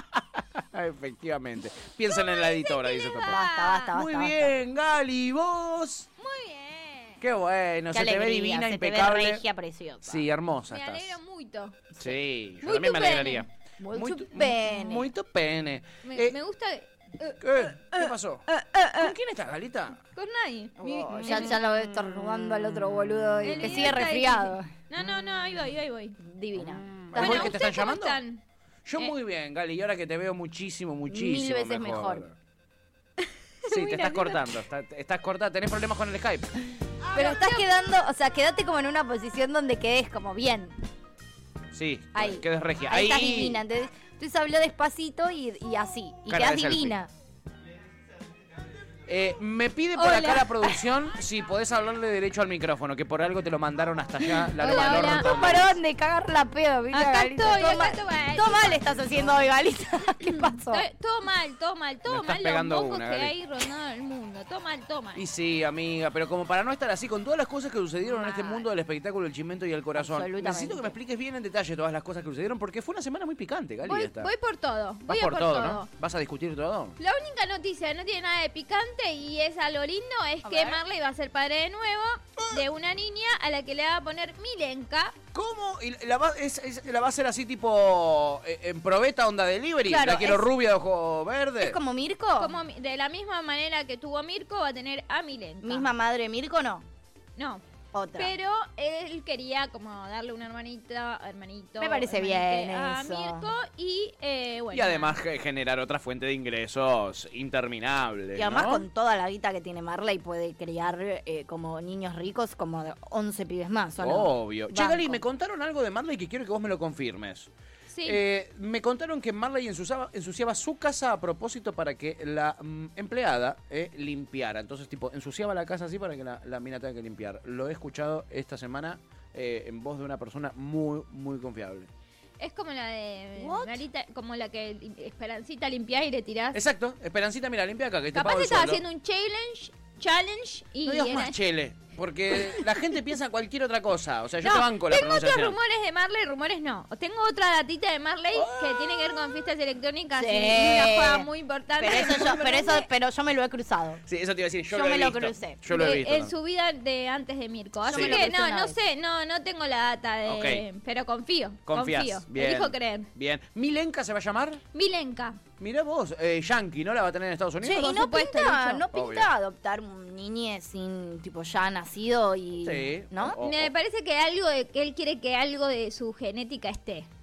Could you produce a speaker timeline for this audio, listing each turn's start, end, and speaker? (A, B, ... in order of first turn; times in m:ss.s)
0:00.2-0:06.1 A
0:02.1-0:03.9 B
0:03.3-0:04.6 C
0:06.2-0:07.2 B
0:07.2-0:09.4 A
0:07.9-0:10.2 C
0:10.0-0:11.2 A
0:10.7-0:11.8 B
0:12.0-0:16.4 A
0:12.6-0:13.4 B
0:13.8-0:15.1 C
0:16.0-0:19.1 B
0:17.4-0:18.4 A
0:19.0-0:20.0 A
0:20.1-0:21.6 B
0:20.8-0:24.7 C
0:21.3-0:22.7 A
0:23.4-0:26.2 B
0:23.6-0:24.0 A
0:26.2-0:27.5 C
0:26.6-0:28.2 A
0:27.2-0:28.4 B
0:28.8-0:32.3 A
0:31.1-0:32.2 C
0:33.6-0:34.5 B
0:33.6-0:36.5 A
0:37.1-0:40.8 C
0:37.1-0:37.6 B
0:41.7-0:43.6 A
0:42.1-0:47.1 C
0:46.3-0:47.0 A
0:49.1-0:55.7 A
0:49.9-0:50.8 B
0:54.4-1:00.8 C
0:54.6-0:55.7 B
0:56.9-0:58.8 B
1:00.2-1:05.2 B
1:02.1-1:03.3 A
1:05.2-1:14.3 A
1:08.2-1:08.5 B
1:09.9-1:11.0 C
1:13.8-1:15.9 B
1:15.1-1:17.0 A
1:17.0-1:25.2 B
1:20.4-1:20.8 C
1:25.3-1:31.8 A
1:29.9-1:30.5 C
1:31.6-1:32.6 C
1:32.4-1:35.9 B
1:35.6-1:36.8 C
1:37.4-1:37.6 B
1:37.9-1:38.3 C
1:38.2-1:45.2 B
1:41.8-1:43.5 C
1:44.7-1:48.8 A
1:48.4-1:55.2 C
1:54.0-1:57.5 A
1:57.9-1:58.2 B
1:58.0-2:11.9 A
2:12.4-2:16.6 B
2:13.4-2:13.8 C
2:16.5-2:18.8 A
2:18.1-2:21.4 B
2:20.8-2:25.6 A
2:24.4-2:32.9 B
2:28.3-2:29.2 A
2:30.1-2:31.3 C
2:31.8-2:34.0 C
2:34.0-2:36.3 A
2:34.7-2:35.6 C
2:35.7-2:43.1 B
2:37.8-2:38.8 C
2:37.9-2:38.2 A
2:40.3-2:40.6 A
2:41.6-2:44.6 A
2:44.7-2:45.4 B
2:45.6-2:47.9 A
2:47.6-2:53.4 C
2:47.7-2:48.8 B
2:48.9-2:49.3 A
2:52.6-2:53.7 A
2:53.4-2:57.1 B